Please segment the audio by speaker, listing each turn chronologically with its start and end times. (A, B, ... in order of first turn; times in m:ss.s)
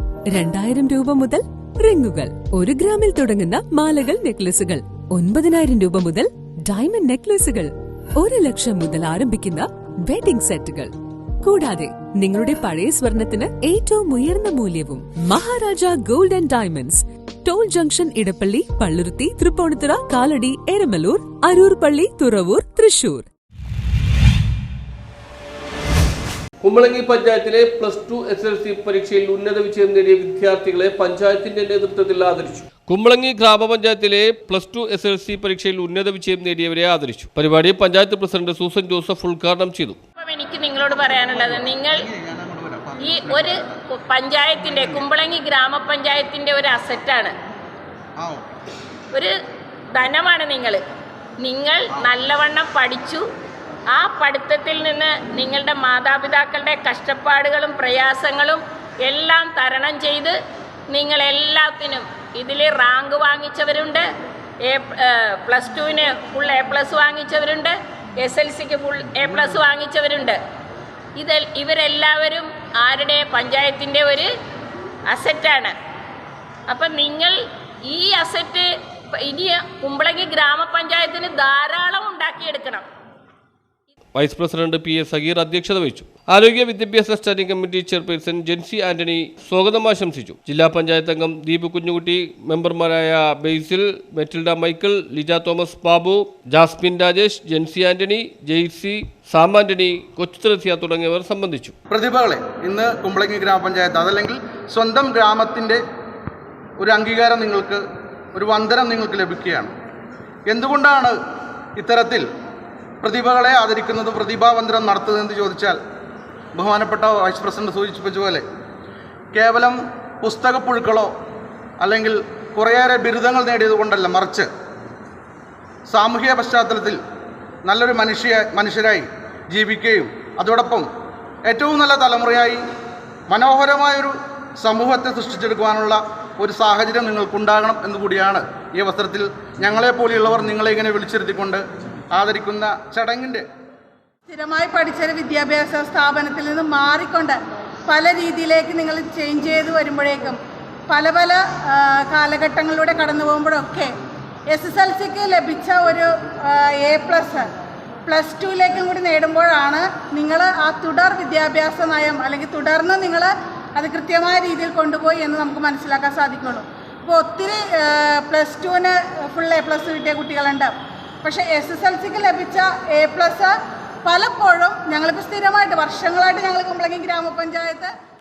0:00.3-0:23.3 A
0:26.6-0:40.0 B
0:40.2-0:42.1 C
0:41.1-0:43.8 D
0:43.0-0:47.3 C
0:44.6-0:45.0 D
0:48.2-0:48.6 D
0:49.9-0:50.8 C
0:51.4-0:53.2 C
0:53.9-1:00.4 C
1:00.9-1:04.1 C
1:04.6-1:10.4 C
1:11.2-1:14.3 C
1:15.1-1:15.7 C
1:16.7-1:17.4 C
1:17.9-1:22.9 C
1:24.1-1:41.7 B
1:41.9-1:45.8 D
1:46.8-1:47.8 D
1:48.3-1:49.7 D
1:50.4-1:51.2 D
1:51.8-1:52.3 D
1:53.0-1:55.8 D
1:56.5-1:58.4 D
1:59.3-2:01.1 D
2:01.8-2:04.5 D
2:05.9-2:07.0 D
2:07.6-2:10.9 D
2:11.5-2:12.6 D
2:13.3-2:23.4 D
2:24.3-2:27.4 E
2:27.9-2:33.9 E
2:34.5-2:37.5 E
2:38.0-2:50.7 E
2:51.2-2:53.5 E
2:54.0-2:57.9 E